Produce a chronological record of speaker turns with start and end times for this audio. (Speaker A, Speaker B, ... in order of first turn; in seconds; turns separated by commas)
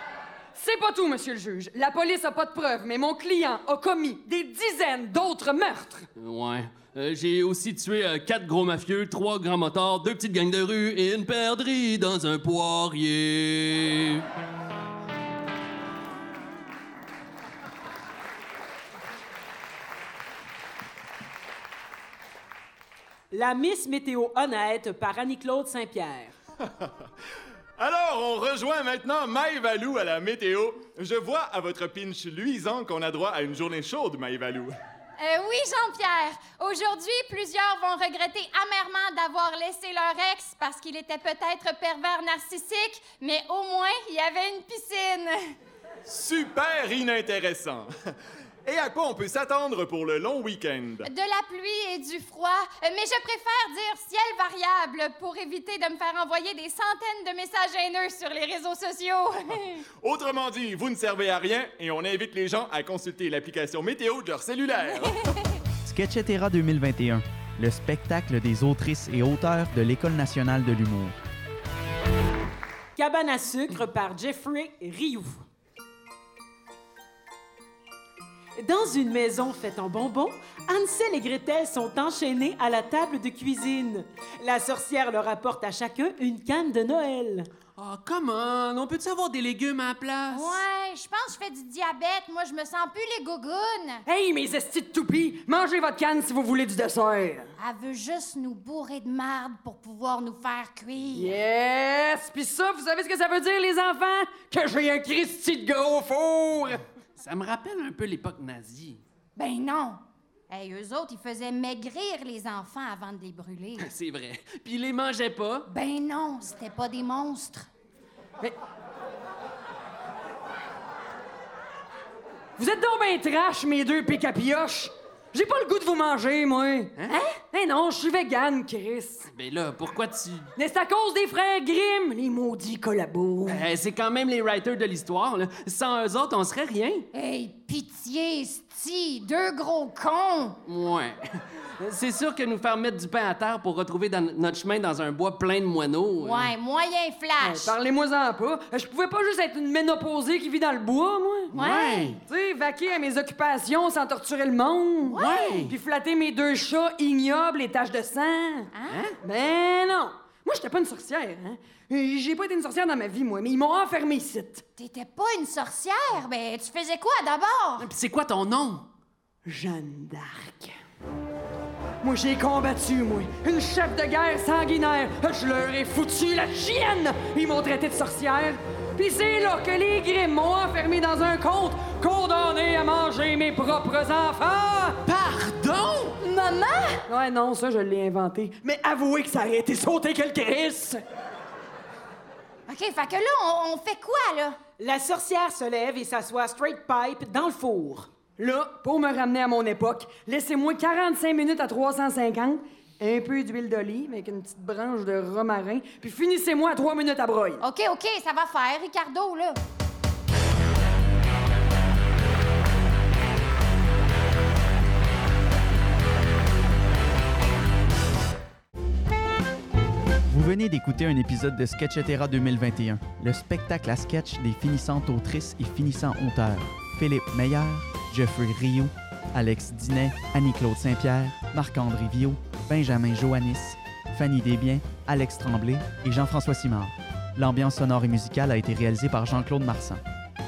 Speaker A: 0.6-6.1, Speaker B: 6.2-14.2, Speaker C: 23.3-26.3, Speaker D: 27.8-34.8, Speaker E: 35.2-45.5, Speaker D: 46.0-47.9, Speaker D: 48.6-51.1, Speaker E: 51.0-59.8, Speaker D: 60.0-65.2, Speaker F: 65.8-71.2, Speaker C: 73.0-75.4, Speaker C: 78.6-87.5, Speaker B: 87.8-90.6, Speaker E: 90.3-94.0, Speaker A: 94.1-97.5, Speaker E: 97.6-101.4, Speaker A: 101.1-106.8, Speaker B: 107.2-109.0, Speaker E: 109.4-113.9, Speaker B: 113.8-115.7, Speaker E: 115.7-117.7, Speaker A: 122.6-129.3, Speaker B: 127.0-127.3, Speaker B: 129.3-130.5, Speaker A: 130.6-133.7, Speaker B: 133.5-137.1, Speaker E: 137.1-140.6, Speaker B: 140.7-146.6, Speaker E: 146.2-147.7, Speaker A: 147.4-151.5, Speaker E: 151.5-152.2, Speaker B: 151.5-152.2, Speaker A: 152.2-164.6, Speaker E: 155.1-155.7, Speaker B: 155.2-155.8, Speaker E: 158.7-159.1, Speaker B: 158.9-159.2, Speaker E: 164.8-167.9, Speaker B: 167.8-168.9, Speaker A: 169.5-170.8, Speaker A: 172.0-185.1, Speaker B: 185.2-186.0, Speaker E: 186.0-187.1, Speaker A: 187.1-191.0, Speaker E: 192.7-194.6, Speaker C: 194.8-198.1, Speaker A: 198.4-207.6, Speaker E: 207.6-209.6, Speaker F: 220.3-240.0